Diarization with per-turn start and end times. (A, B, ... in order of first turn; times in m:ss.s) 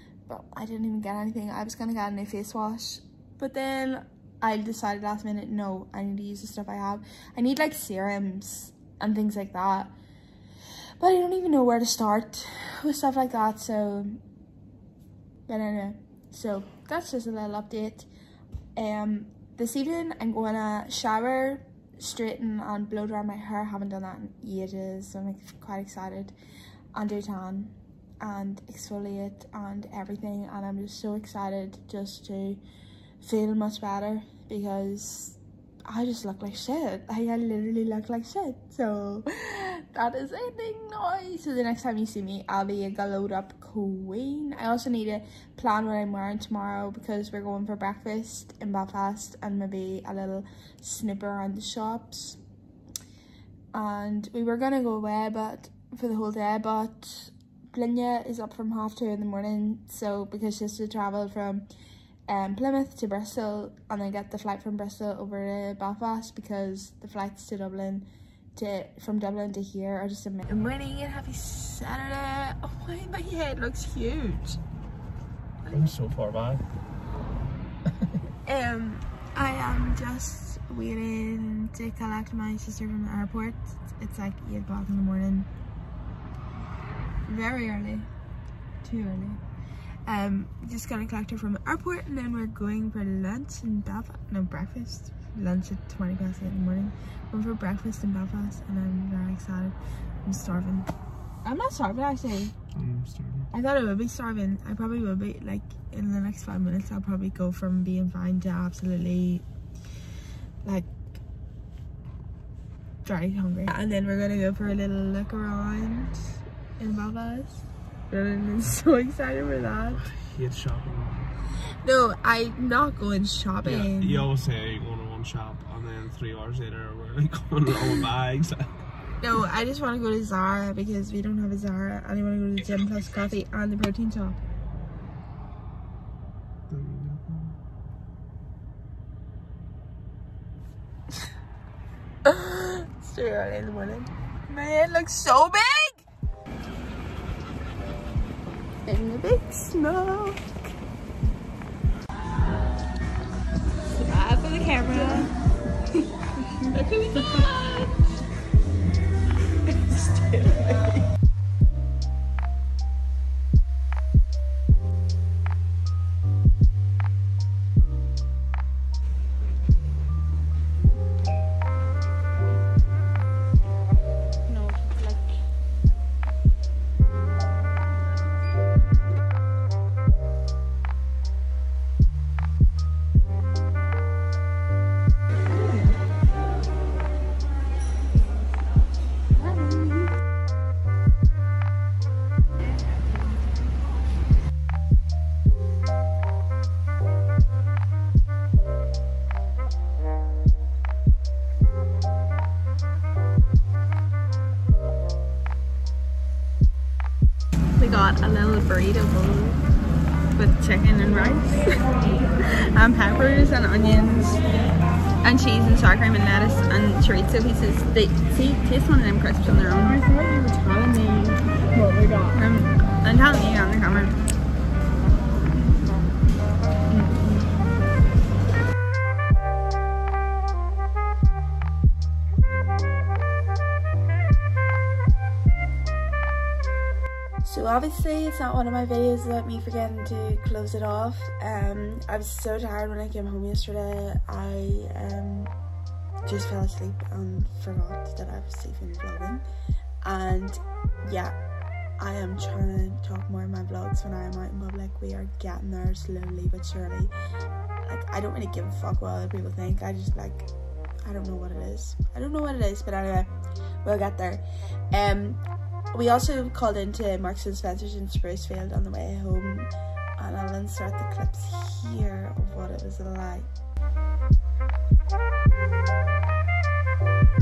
0:00.3-0:09.9 A
0:11.0-0:14.2 A
0:15.5-0:18.1 A
0:18.8-0:26.3 A
0:26.9-0:32.6 A
0:33.2-0:52.4 A
0:53.7-1:01.7 A
1:02.3-1:14.6 A
1:15.7-1:15.9 A
1:15.7-1:16.6 B
1:18.4-1:25.5 A
1:27.3-1:28.1 A
1:28.8-1:29.4 A
1:30.1-1:40.9 A
1:41.4-1:42.6 A
1:42.7-1:43.5 B
1:43.5-1:49.4 A
1:50.6-1:51.2 A
1:53.0-2:00.0 A
1:59.9-2:01.3 B
2:01.8-2:04.3 A
2:03.6-2:08.7 B
2:09.2-2:14.4 A
2:16.7-2:17.6 B
2:22.2-2:26.0 A
2:28.9-2:30.5 A
2:34.0-2:35.3 A
2:34.9-2:35.3 C
2:36.8-2:38.0 A
2:39.8-2:41.0 A
2:54.5-2:55.4 A
3:27.8-3:29.6 A
3:30.4-3:34.4 A
3:35.2-3:40.0 A
3:39.8-3:42.4 C
3:42.3-3:44.2 A
3:46.9-3:47.5 A
3:57.4-4:05.5 A
4:06.2-4:09.4 A
4:10.0-4:11.4 A
4:12.0-4:17.1 A
4:17.8-4:20.5 A
4:21.0-4:33.5 A